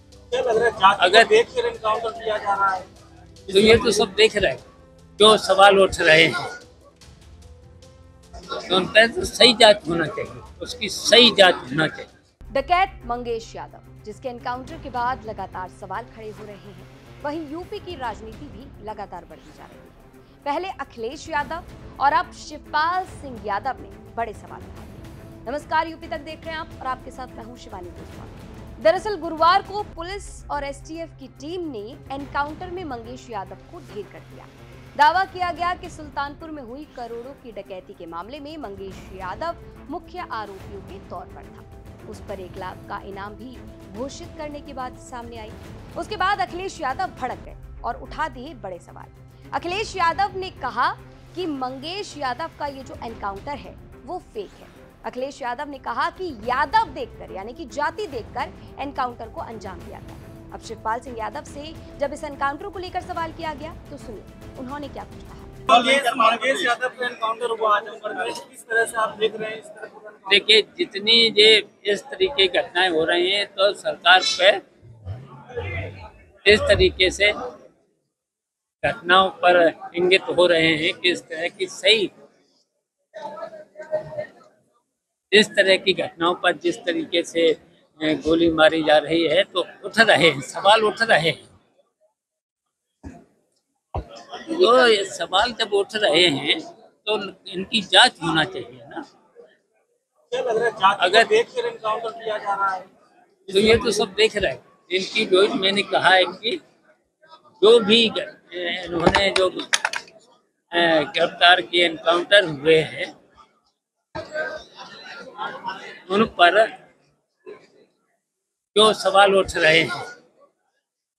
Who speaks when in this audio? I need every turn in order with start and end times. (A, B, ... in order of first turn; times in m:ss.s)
0:00.3-0:02.9 A
0:01.0-0:01.3 B
0:03.5-0:04.6 B
0:03.5-0:04.0 A
0:05.2-0:06.4 B
0:08.6-0:12.1 B
0:12.5-1:05.6 C
1:05.7-1:10.4 A
1:10.3-1:14.6 B
1:15.5-1:15.9 B
1:16.4-1:17.3 B
1:18.8-1:22.1 B
1:23.8-1:24.2 B
1:25.3-1:31.4 B
1:34.1-1:39.0 B
1:40.3-1:42.9 A
1:41.0-1:41.3 B
1:43.5-1:46.6 B
1:47.6-1:49.6 B
1:50.7-1:53.1 B
1:55.3-1:56.7 B
1:58.7-2:00.0 B